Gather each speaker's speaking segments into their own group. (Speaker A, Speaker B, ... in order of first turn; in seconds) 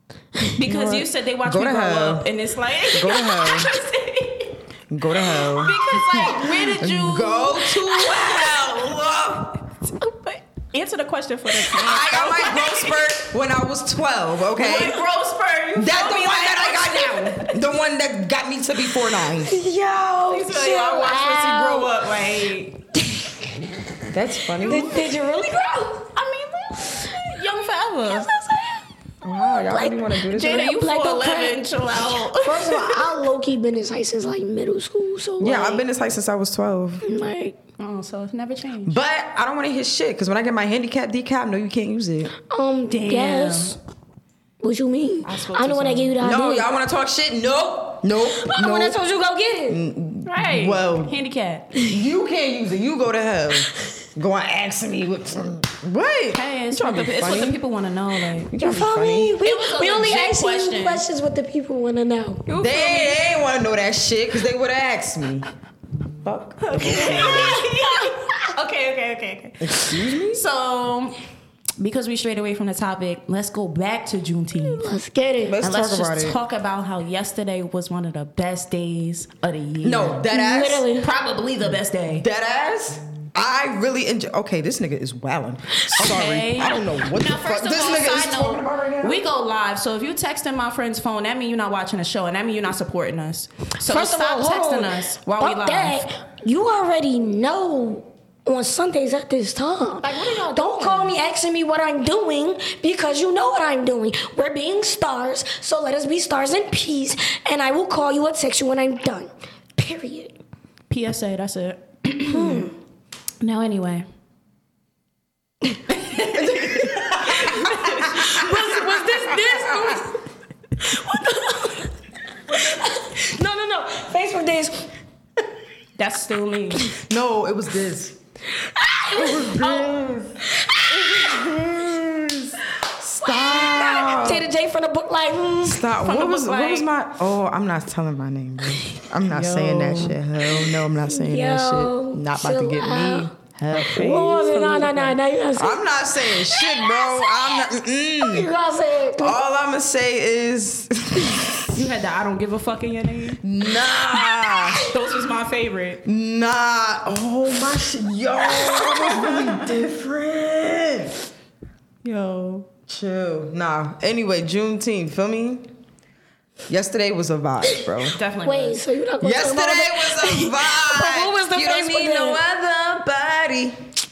Speaker A: 0.5-4.6, 5.2-9.0, 10.0-13.0, 14.6-17.6, 20.3-22.8, 26.1-28.3, 30.3-33.0, 37.8-39.0, 42.9-43.8, 45.2-46.1, 50.2-51.7, 56.3-58.5, 59.4-61.0, 62.5-63.2, 66.6-71.2, 71.8-74.9, 75.6-80.2, 81.0-82.2, 86.0-96.0, 100.0-101.1, 110.9-112.7, 113.4-114.0, 115.9-118.4, 126.0-126.9, 136.0-136.9, 139.3-140.2, 143.7-145.2, 151.7-153.4, 154.8-156.0, 162.0-162.7, 168.1-168.8
Speaker B: 0.6-2.3, 2.9-3.7, 4.9-9.7, 11.7-15.0, 15.8-19.6, 24.1-25.0, 29.2-30.7, 35.4-37.0, 38.9-42.3, 46.2-49.0, 49.7-51.1, 51.9-57.6, 58.5-59.3, 62.6-65.5, 66.2-67.6, 69.6-70.4, 75.5-76.4, 79.8-80.8, 82.2-89.2, 119.2-120.0, 127.0-128.2, 129.2-134.4, 135.6-144.4, 145.5-148.5, 149.2-151.7, 153.4-154.8, 156.0-161.1, 162.9-165.7, 166.7-168.2, 169.2-173.8
Speaker C: 19.3-21.9, 24.6-26.1, 28.1-28.6, 29.5-35.8, 37.0-37.6, 42.5-43.8, 44.6-46.7, 48.3-49.8, 58.5-62.4, 74.6-75.6, 80.3-81.1, 93.8-110.3, 112.3-112.7, 117.4-120.2, 120.8-121.9, 122.5-124.9, 128.5-131.6, 133.2-135.8, 141.1-149.4, 158.4-159.5, 168.4-172.4